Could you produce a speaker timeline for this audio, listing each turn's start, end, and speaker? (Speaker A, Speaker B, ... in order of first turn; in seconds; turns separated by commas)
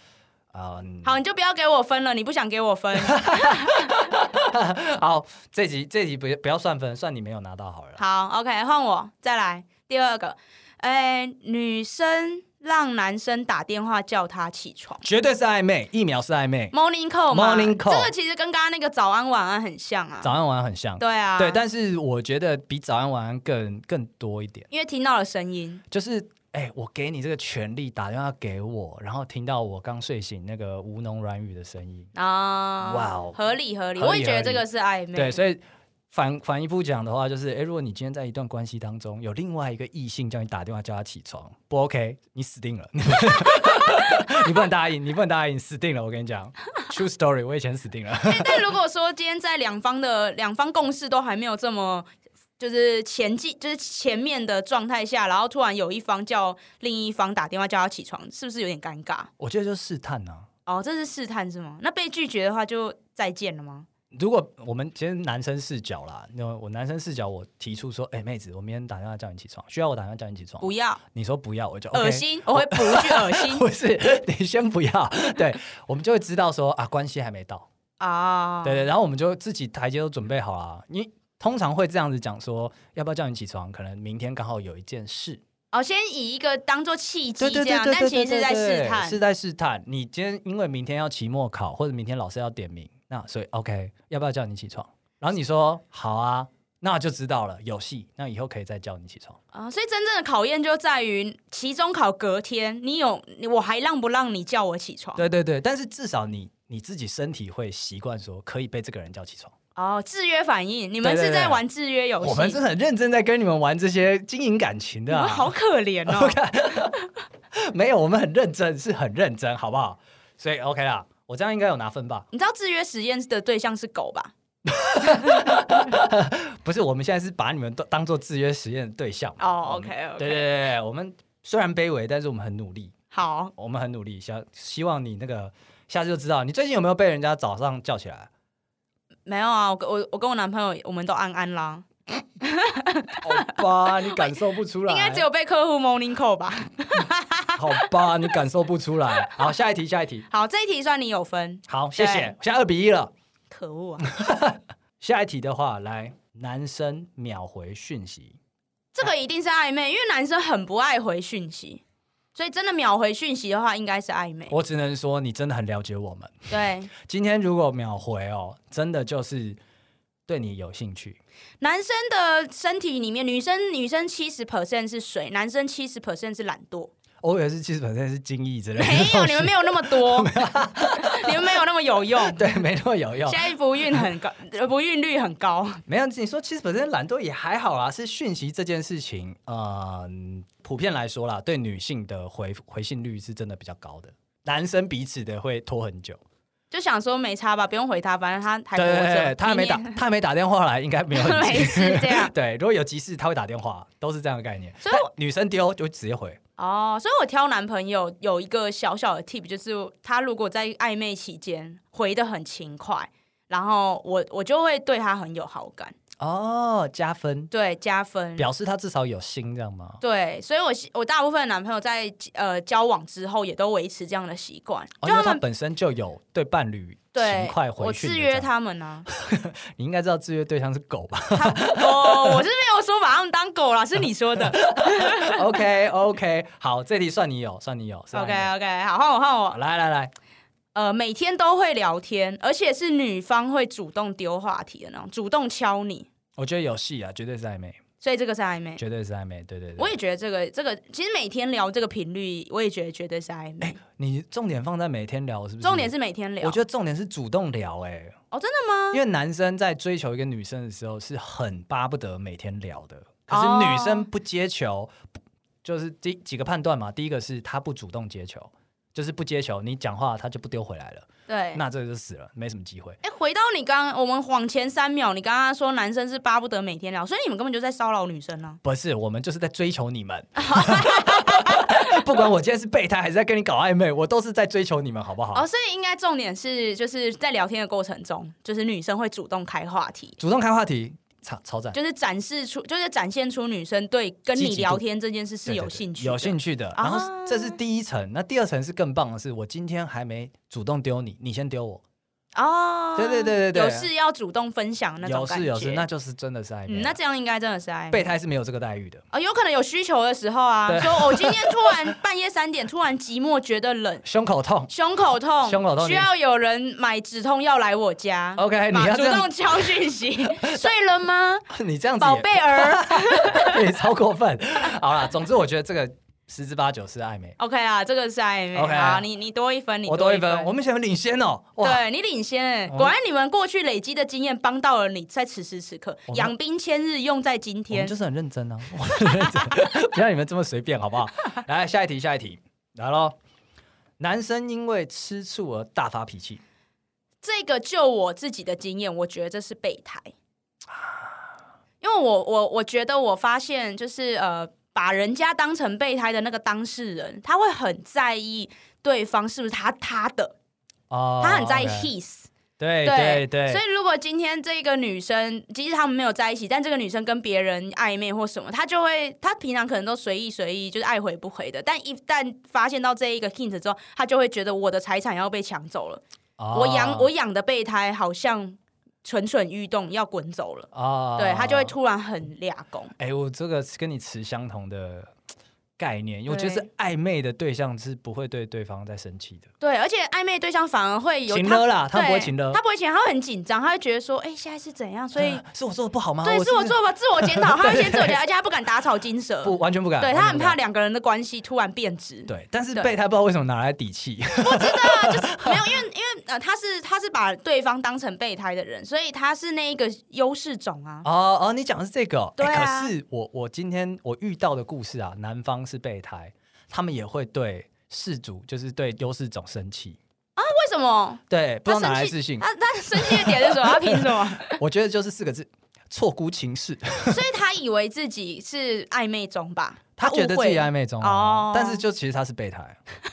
Speaker A: 0.5-1.2, Speaker B: 1.0-4.1, Speaker A: 3.0-8.0, Speaker B: 8.0-15.0, Speaker A: 15.0-16.7, Speaker B: 16.7-20.3, Speaker A: 17.3-18.1, Speaker A: 20.2-24.7, Speaker B: 21.0-21.6, Speaker B: 24.7-25.8, Speaker A: 25.9-32.1, Speaker B: 32.1-35.4, Speaker A: 32.8-33.4, Speaker A: 34.0-48.6, Speaker B: 43.3-44.4, Speaker B: 48.2-59.3, Speaker A: 59.4-60.5, Speaker B: 60.6-63.9, Speaker A: 64.1-77.7, Speaker B: 70.6-71.0, Speaker B: 71.9-73.6, Speaker B: 78.0-78.8, Speaker A: 78.6-85.4, Speaker B: 85.7-89.2, Speaker A: 87.4-99.4, Speaker B: 99.5-105.2, Speaker A: 105.2-109.5, Speaker B: 109.7-112.6, Speaker A: 111.0-111.6, Speaker A: 112.2-115.5, Speaker B: 115.1-116.4, Speaker A: 116.0-122.2, Speaker B: 122.3-124.3, Speaker A: 124.7-132.9, Speaker B: 125.2-125.5, Speaker B: 129.4-130.4, Speaker B: 133.1-133.5, Speaker A: 133.6-138.3, Speaker B: 139.2-141.8, Speaker B: 142.4-147.8, Speaker A: 143.2-145.2, Speaker A: 147.5-150.2, Speaker B: 149.2-149.5, Speaker B: 150.3-152.3, Speaker A: 151.7-153.1, Speaker B: 153.5-154.1, Speaker A: 154.0-158.4, Speaker B: 158.9-161.8, Speaker B: 162.3-164.5, Speaker A: 164.5-169.6, Speaker B: 166.5-166.9, Speaker A: 170.3-171.2, Speaker B: 171.6-176.9, Speaker A: 177.2-181.6, Speaker B: 178.8-182.6, Speaker A: 182.2-184.1, Speaker B: 183.2-185.8, Speaker A: 185.9-196.2, Speaker B: 196.7-200.0, Speaker A: 198.8-206.4, Speaker B: 201.1-202.3, Speaker B: 204.8-205.1, Speaker B: 206.6-215.9, Speaker A: 216.2-217.5, Speaker B: 217.5-218.5, Speaker A: 218.4-220.0, Speaker B: 220.0-225.4, Speaker A: 225.0-228.5, Speaker B: 227.1-229.1, Speaker A: 229.1-232.4, Speaker B: 231.3-235.6, Speaker A: 234.3-238.5, Speaker B: 238.1-239.6, Speaker A: 239.5-240.1, Speaker B: 240.7-246.1, Speaker A: 246.4-247.8, Speaker B: 248.0-248.8, Speaker A: 248.8-249.9, Speaker B: 249.8-253.8, Speaker A: 253.6-258.2, Speaker B: 255.6-256.6, Speaker B: 258.3-259.0, Speaker A: 258.9-265.1, Speaker B: 263.3-264.1, Speaker A: 265.6-273.0, Speaker B: 271.3-271.6, Speaker B: 273.0-278.6, Speaker A: 278.6-285.4, Speaker B: 280.4-282.1, Speaker B: 285.3-290.2, Speaker A: 290.2-291.8, Speaker B: 291.7-297.6, Speaker A: 294.3-294.8, Speaker A: 295.4-301.8, Speaker B: 302.3-305.8, Speaker A: 302.9-303.9, Speaker A: 305.0-306.9, Speaker B: 306.7-308.0, Speaker A: 307.9-309.0, Speaker B: 309.1-314.0, Speaker A: 310.7-311.9, Speaker A: 314.0-314.7, Speaker B: 314.7-321.4, Speaker A: 315.4-316.1, Speaker A: 318.4-319.7, Speaker A: 321.5-327.4, Speaker B: 322.0-323.6, Speaker B: 327.4-330.5, Speaker A: 328.5-329.0, Speaker A: 329.9-331.8, Speaker B: 331.6-337.9, Speaker A: 332.7-332.9, Speaker A: 336.1-336.3, Speaker A: 337.7-343.1, Speaker B: 338.9-339.7, Speaker A: 344.0-346.4, Speaker B: 347.2-350.1, Speaker A: 350.8-351.0, Speaker B: 351.8-360.3, Speaker A: 360.9-361.9, Speaker B: 361.2-362.3, Speaker A: 362.6-363.6, Speaker B: 362.8-376.0, Speaker A: 376.4-377.1, Speaker B: 376.5-382.9, Speaker A: 380.7-381.7, Speaker A: 383.0-385.1, Speaker A: 385.8-389.5, Speaker B: 386.3-386.6, Speaker B: 389.6-395.4, Speaker A: 391.3-392.6, Speaker A: 395.1-398.2, Speaker B: 396.2-402.9, Speaker A: 399.4-400.6, Speaker A: 402.3-405.8, Speaker B: 404.4-411.0, Speaker A: 411.0-420.0, Speaker B: 412.4-412.9, Speaker B: 420.4-424.6, Speaker A: 421.3-427.2, Speaker B: 427.1-431.8, Speaker A: 430.0-432.8